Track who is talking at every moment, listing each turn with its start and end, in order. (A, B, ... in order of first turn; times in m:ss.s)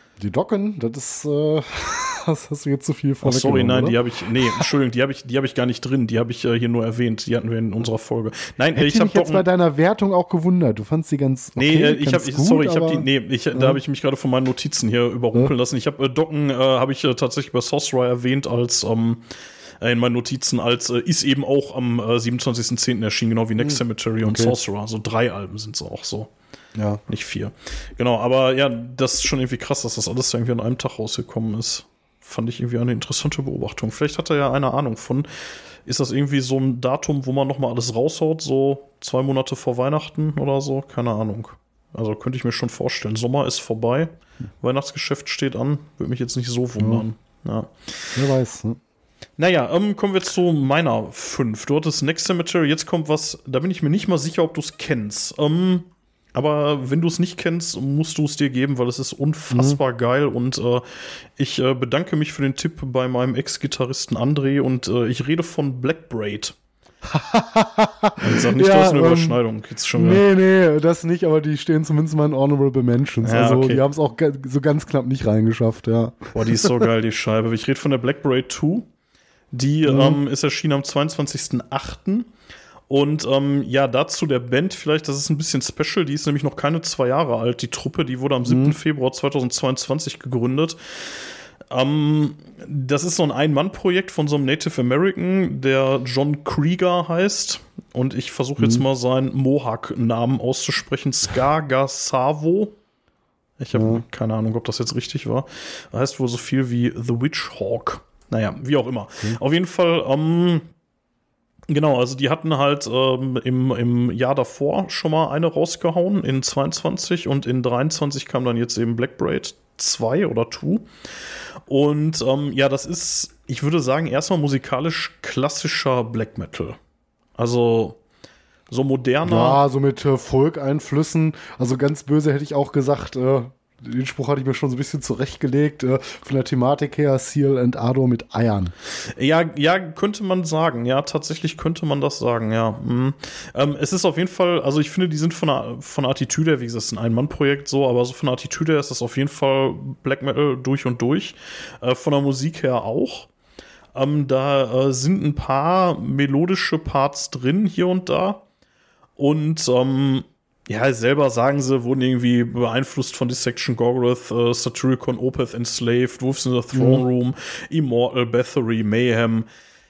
0:00.2-0:04.7 A
0:03.2-0:09.4 B
0:08.7-0:13.8 A
0:11.6-0:19.2 B
0:19.8-0:26.3 B
0:23.6-0:24.5 A
0:26.8-0:27.0 A
0:27.1-0:48.2 B
0:46.8-0:47.0 A
0:48.1-0:48.8 A
0:49.4-1:06.5 B
0:59.5-0:59.8 A
1:07.0-1:09.4 A
1:08.2-1:10.2 B
1:09.9-1:16.9 A
1:13.2-1:13.8 B
1:16.3-1:18.9 B
1:19.5-1:22.3 B
1:19.8-1:20.2 A
1:22.9-1:42.8 B
1:28.4-1:28.8 A
1:38.6-1:38.8 A
1:43.6-1:50.7 B
1:43.7-1:44.0 A
1:51.7-2:06.8 B
2:07.4-2:08.0 B
2:08.7-2:09.6 B
2:09.2-2:18.7 A
2:19.0-2:33.3 B
2:33.9-2:38.4 B
2:39.2-2:49.5 B
2:46.7-2:47.0 A